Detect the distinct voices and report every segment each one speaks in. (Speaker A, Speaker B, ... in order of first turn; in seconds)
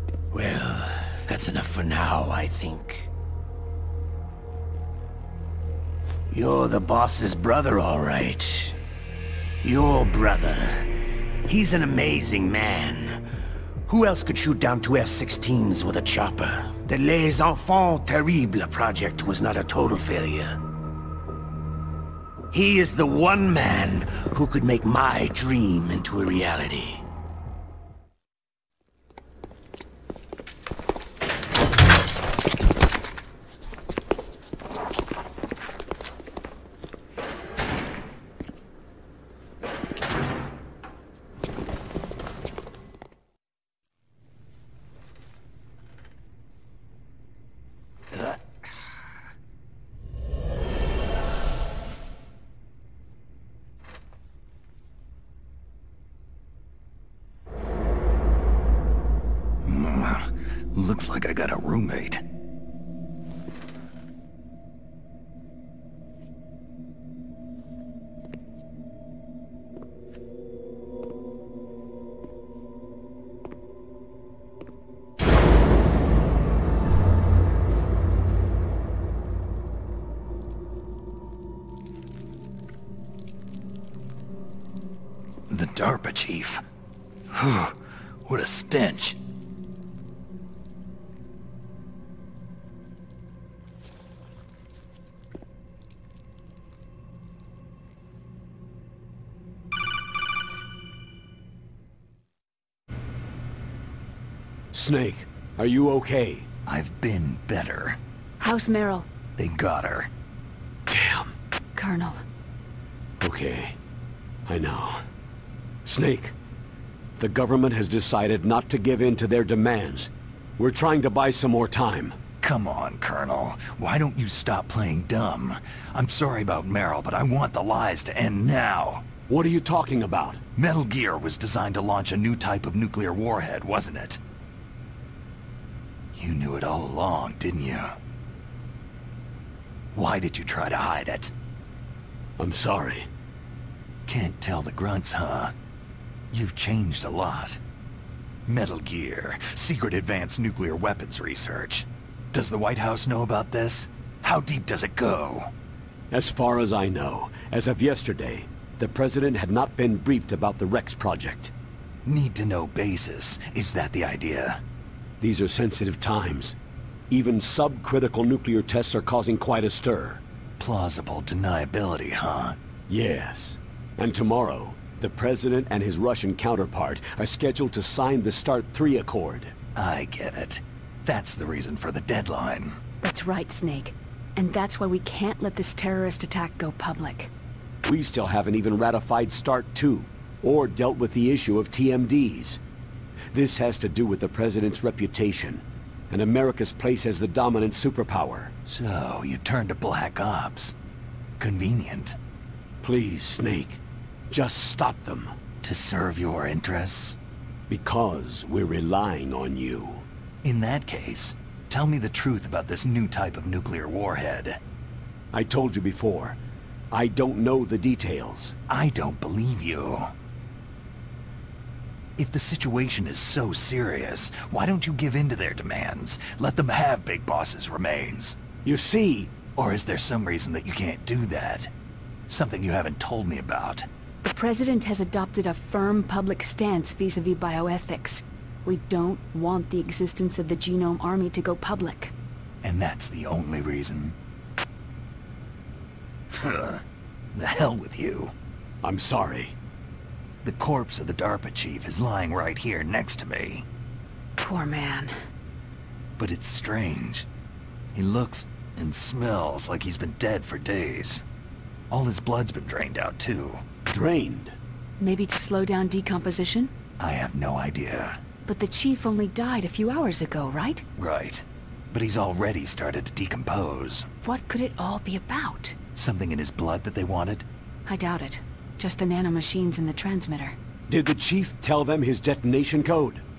Speaker A: 0.3-3.1, 6.3-8.8, 9.6-10.9, 11.4-13.2, 13.9-20.6, 22.5-27.0
Speaker B: 59.6-62.2, 85.5-86.6, 87.3-87.7, 88.2-89.2, 106.7-108.0, 109.4-110.1, 122.4-129.0, 130.6-134.2, 136.1-137.9, 139.9-141.3, 144.1-145.5, 146.3-147.6, 148.5-155.5, 162.0-164.6, 170.6-172.6, 179.7-182.8, 198.7-200.8, 201.4-202.2, 205.6-207.2, 210.4-214.6, 218.7-220.1, 222.2-228.4, 229.5-231.7, 232.3-233.9, 242.6-244.2, 246.3-246.8, 247.3-248.3, 250.4-253.7, 256.2-257.3, 257.9-261.2, 261.9-263.6, 267.0-268.2, 270.9-274.1, 275.9-277.5
Speaker C: 104.7-106.5, 110.9-111.3, 113.2-113.8, 114.5-115.0, 115.8-116.3, 117.2-122.2, 129.3-130.4, 142.4-143.1, 156.1-161.5, 165.2-166.6, 167.1-170.2, 172.9-179.5, 187.8-192.6, 193.3-198.5, 202.8-205.3, 207.7-210.1, 215.3-216.4, 216.9-218.5, 228.6-229.4, 248.8-249.6, 263.9-264.6, 280.9-283.2
Speaker D: 108.4-109.1, 111.7-112.2, 183.0-187.3, 234.2-242.1, 254.4-255.1, 265.0-266.7, 268.4-270.8, 274.2-275.8, 277.9-280.6